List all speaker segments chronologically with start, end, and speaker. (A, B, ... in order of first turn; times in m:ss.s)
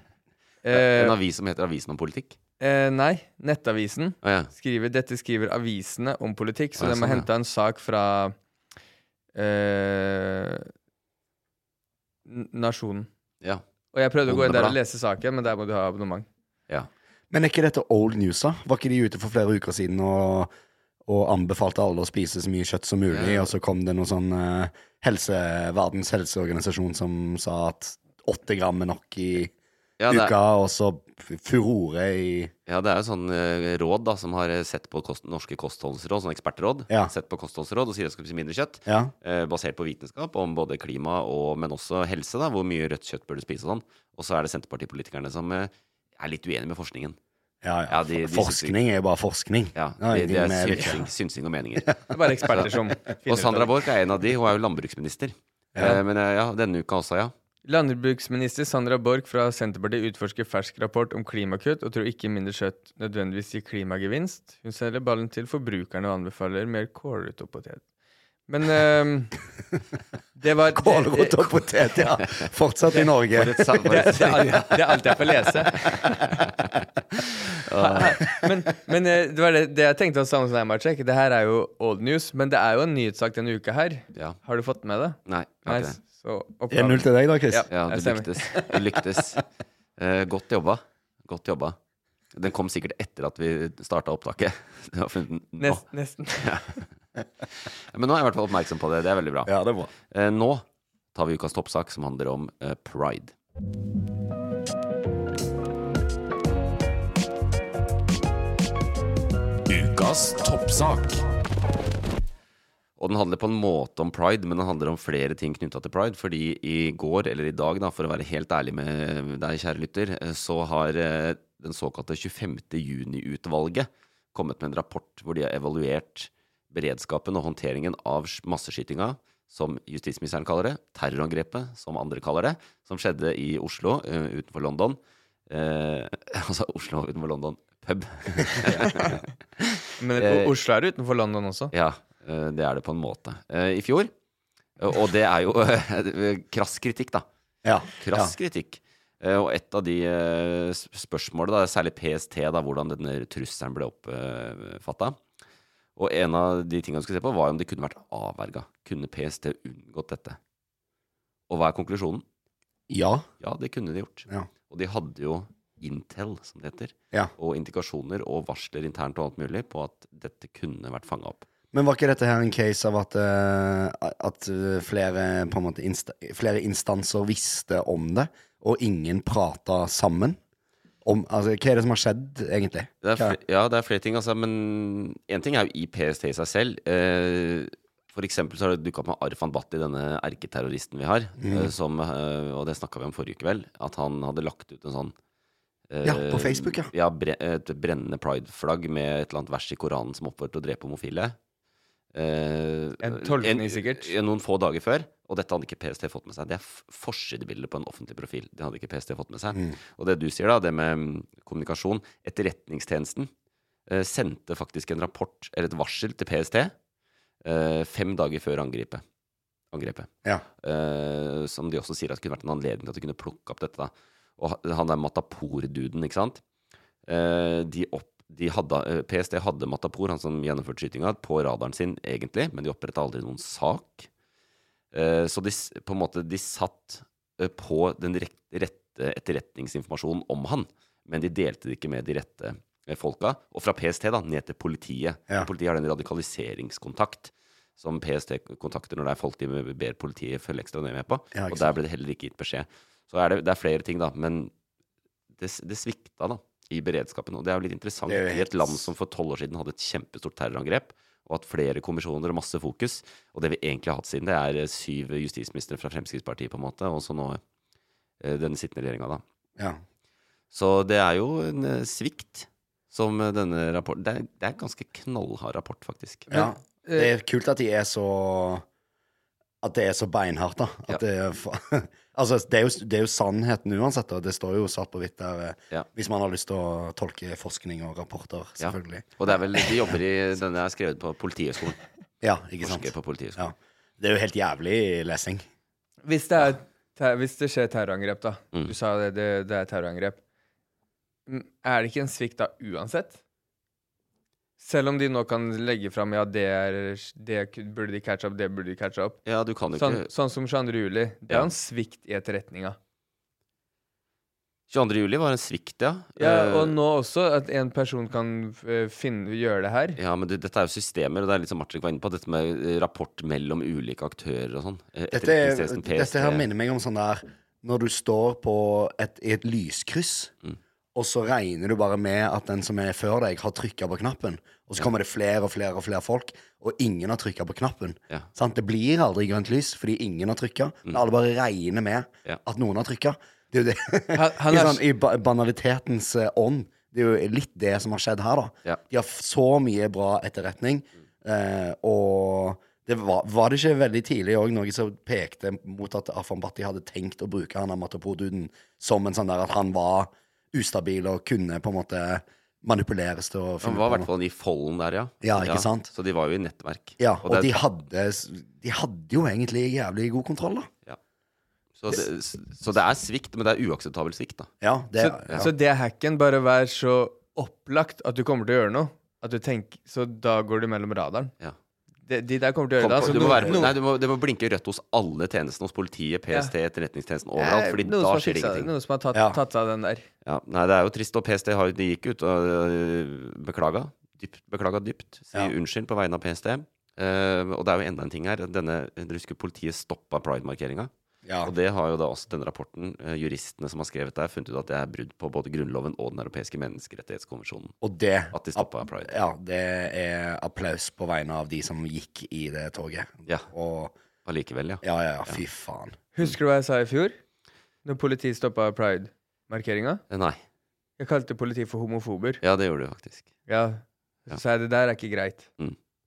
0:00.6-0:01.2 A
0:00.7-0:02.4 B
0:02.6-0:08.3 A
0:04.2-0:04.5 B
0:06.8-0:07.3 B
0:09.3-0:10.7 A
0:12.2-0:13.1 A
0:13.9-0:16.3 A
0:14.2-0:14.8 B
0:17.3-0:20.5 C
0:21.0-0:29.5 C
0:23.1-0:23.5 B
0:30.0-0:30.3 B
0:30.1-0:32.5 C
0:32.7-0:47.2 B
0:38.9-0:39.1 C
0:47.6-0:51.0 C
0:47.9-0:48.8 B
0:49.8-0:57.3 B
0:52.1-0:53.7 A
0:57.6-1:07.8 A
1:08.5-1:09.3 A
1:10.4-1:11.7 A
1:10.7-1:14.4 C
1:13.3-1:15.0 B
1:13.8-1:16.3 A
1:17.5-1:18.2 B
1:17.7-1:28.8 A
1:25.3-1:26.0 B
1:26.7-1:27.7 C
1:27.7-1:29.4 B
1:30.0-1:31.8 B
1:32.3-1:35.8 B
1:35.6-1:36.6 A
1:36.4-1:36.7 B
1:37.9-1:39.5 B
1:39.4-1:39.9 C
1:40.1-1:40.6 B
1:41.1-1:43.3 B
1:49.7-1:51.2 B
1:53.0-2:20.5 B
2:20.0-2:21.7 A
2:21.7-2:24.1 B
2:24.8-2:27.2 B
2:27.6-2:28.3 C
2:28.0-2:35.2 B
2:36.0-2:40.4 B
2:41.5-2:42.2 B
2:42.9-2:43.2 C
2:43.4-2:51.4 B
2:51.7-3:00.4 C
3:01.0-3:03.4 C
3:03.0-3:15.1 B
3:11.4-3:11.7 C
3:15.9-3:21.4 B
3:16.0-3:16.9 C
3:22.1-3:33.3 B
3:23.0-3:24.1 A
3:33.9-3:36.7 B
3:37.4-3:39.0 B
3:39.7-3:40.1 B
3:40.6-3:46.4 B
3:47.0-3:54.1 B
3:54.9-4:14.5 B
4:11.3-4:11.7 C
4:15.4-4:27.4 B
4:18.1-4:18.8 C
4:28.2-4:29.2 B
4:30.5-4:36.3 B
4:36.3-4:38.6 C
4:36.3-4:37.1 A
4:39.6-4:49.1 C
4:48.6-4:51.8 B
4:52.2-4:55.4 C
4:52.6-4:53.4 B
4:56.0-5:00.2 A
5:01.3-5:03.2 A
5:04.6-5:09.2 A
5:09.2-5:10.1 B
5:09.7-5:12.8 A
5:14.7-5:16.7 B
5:16.2-5:20.0 A
5:20.0-5:26.4 B
5:25.1-5:30.3 C
5:30.9-6:04.1 C
5:44.1-5:44.8 A
6:03.6-6:07.6 B
6:05.2-6:05.9 C
6:07.0-6:10.7 C
6:11.8-6:14.5 B
6:14.6-6:15.5 C
6:15.0-6:21.3 A
6:22.0-6:23.7 A
6:22.8-6:28.7 B
6:27.4-6:30.0 A
6:30.2-6:40.9 B
6:41.2-6:41.5 C
6:41.4-6:47.7 B
6:47.8-6:53.9 C
6:48.3-6:49.1 B
6:54.2-6:55.4 B
6:54.8-6:56.0 C
6:56.1-6:57.2 A
6:57.8-7:00.0 A
7:00.1-7:00.4 B
7:01.0-7:02.4 A
7:02.4-7:03.3 B
7:03.5-7:05.5 A